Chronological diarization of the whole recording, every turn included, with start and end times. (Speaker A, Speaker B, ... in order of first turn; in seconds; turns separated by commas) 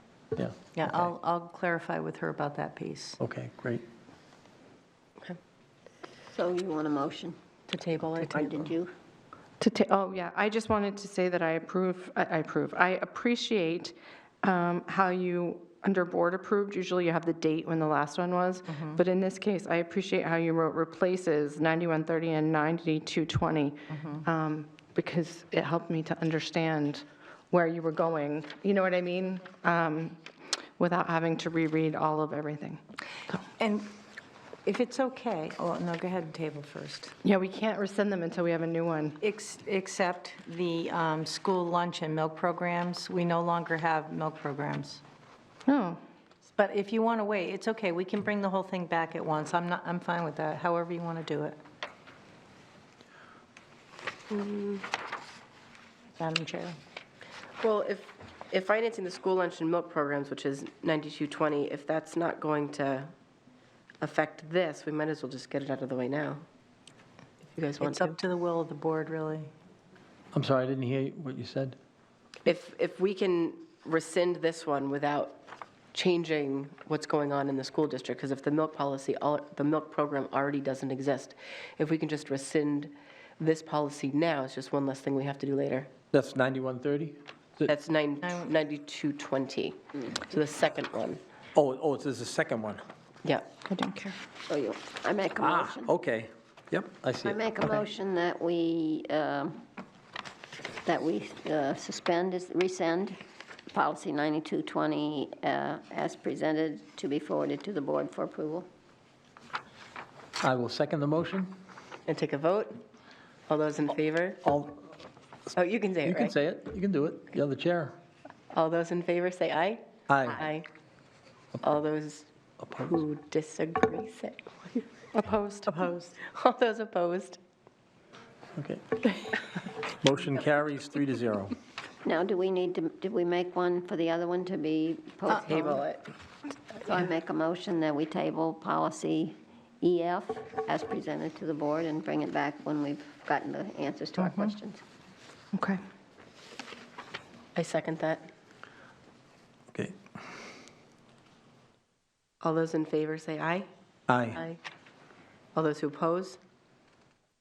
Speaker A: 0.3-1.1, Speaker B: 0.7-3.2, Speaker A: 3.2-3.8, Speaker C: 6.3-7.4, Speaker C: 8.1-8.9, Speaker D: 9.6-32.8, Speaker B: 18.7-19.0, Speaker B: 23.9-24.2, Speaker B: 33.6-33.9, Speaker B: 34.7-37.1, Speaker D: 37.2-39.2, Speaker B: 39.2-45.0, Speaker D: 45.7-46.0, Speaker B: 46.5-51.6, Speaker B: 56.2-56.8, Speaker E: 57.6-63.1, Speaker E: 64.0-66.4, Speaker B: 67.8-69.5, Speaker A: 70.3-71.8, Speaker E: 72.4-75.4, Speaker E: 75.9-85.9, Speaker A: 86.1-87.7, Speaker E: 87.7-89.8, Speaker B: 88.2-88.5, Speaker E: 90.3-91.2, Speaker A: 91.5-92.8, Speaker E: 93.2-93.5, Speaker D: 93.6-94.2, Speaker C: 94.5-95.9, Speaker A: 95.4-97.7, Speaker C: 97.2-99.6, Speaker C: 100.8-103.2, Speaker C: 103.7-108.7, Speaker A: 110.4-111.5, Speaker E: 112.1-112.8, Speaker E: 113.5-114.4, Speaker A: 114.4-114.8, Speaker E: 115.6-116.1, Speaker A: 116.0-118.0, Speaker E: 118.5-119.8, Speaker A: 120.1-120.5, Speaker E: 121.6-122.2, Speaker A: 122.6-122.9, Speaker E: 123.1-124.8, Speaker D: 125.1-125.7, Speaker B: 125.6-126.2, Speaker E: 126.2-127.4, Speaker A: 128.6-131.5, Speaker C: 132.0-135.8, Speaker B: 135.3-135.8, Speaker C: 136.8-144.8, Speaker D: 145.5-145.8, Speaker E: 147.6-148.3, Speaker A: 149.7-150.0, Speaker E: 152.4-153.7, Speaker A: 154.1-154.4, Speaker E: 155.6-156.4